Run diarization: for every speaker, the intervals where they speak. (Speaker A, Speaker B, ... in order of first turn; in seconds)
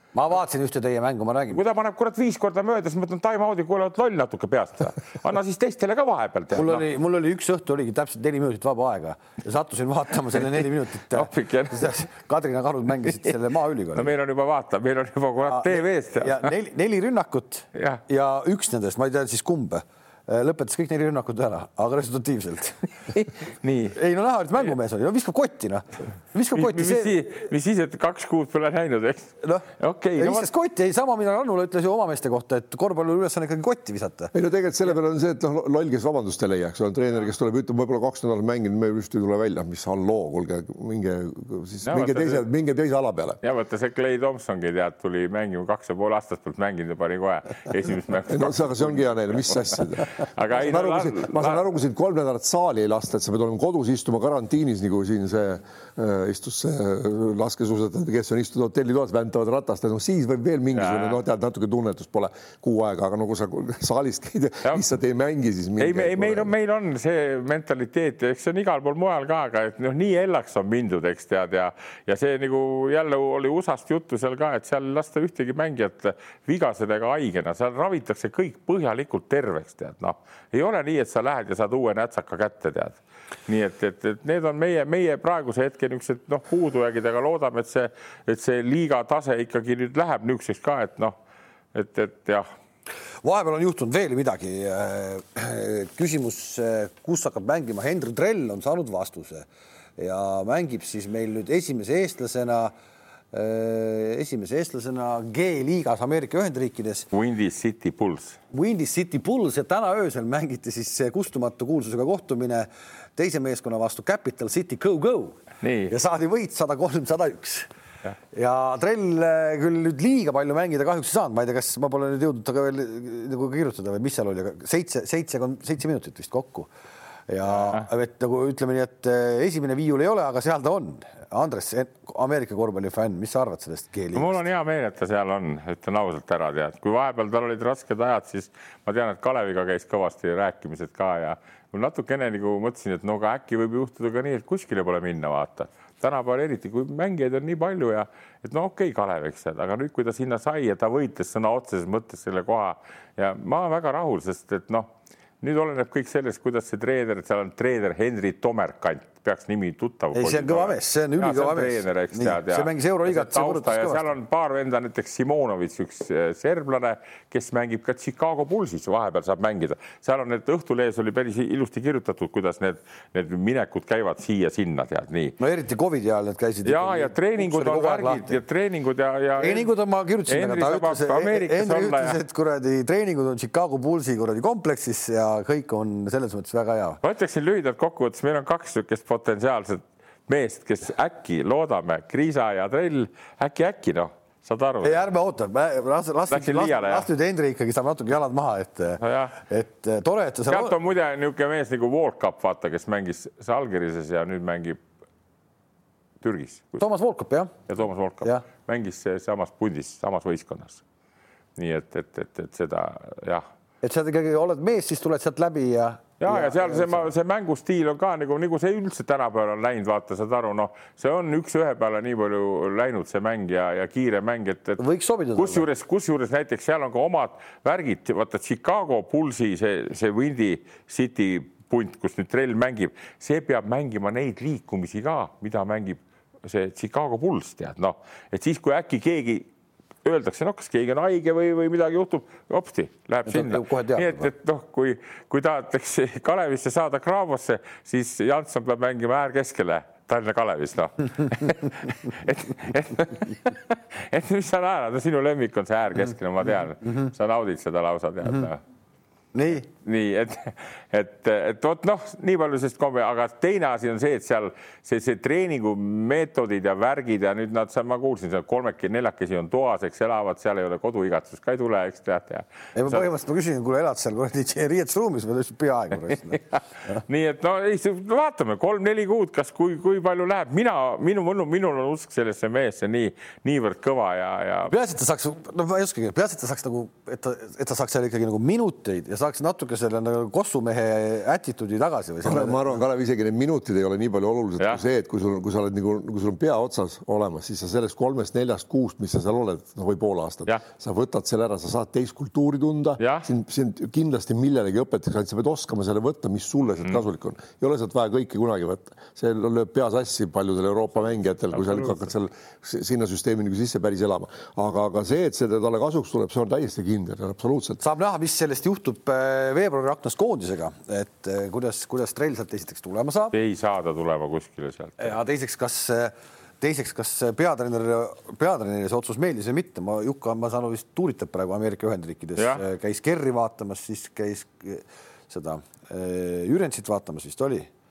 Speaker A: 0.1-1.6, 6.5-14.1, 15.4-22.9, 23.9-27.2, 29.4-34.3, 93.2-99.5, 100.0-102.7, 103.3-107.1, 108.5-117.7, 118.3-126.7, 127.3-134.4, 160.1-164.1, 175.4-178.4, 179.4-187.0, 194.8-200.8, 206.8-207.5, 213.8-217.1, 224.8-225.7, 243.3-244.3, 259.3-259.7, 272.7-277.0, 284.7-292.8, 317.8-323.3, 325.0-337.7
Speaker B: 1.5-6.8, 11.1-12.0, 13.9-16.5, 17.7-18.0, 23.2-23.9, 26.5-30.5, 41.8-42.4, 43.4-51.6, 60.8-61.2, 65.8-91.1, 91.7-92.5, 107.1-108.4, 115.6-115.9, 134.1-154.9, 155.4-175.4, 176.6-179.7, 180.3-182.2, 187.0-195.0, 196.3-197.1, 199.0-199.3, 200.5-204.8, 206.2-206.8, 207.7-210.8, 211.6-213.4, 216.2-224.8, 225.3-239.5, 240.0-258.6, 259.6-273.1, 277.0-284.7, 303.0-303.3, 311.6-311.9, 323.3-325.2, 332.4-332.6
Speaker C: 34.3-43.4, 48.3-66.5, 292.2-317.8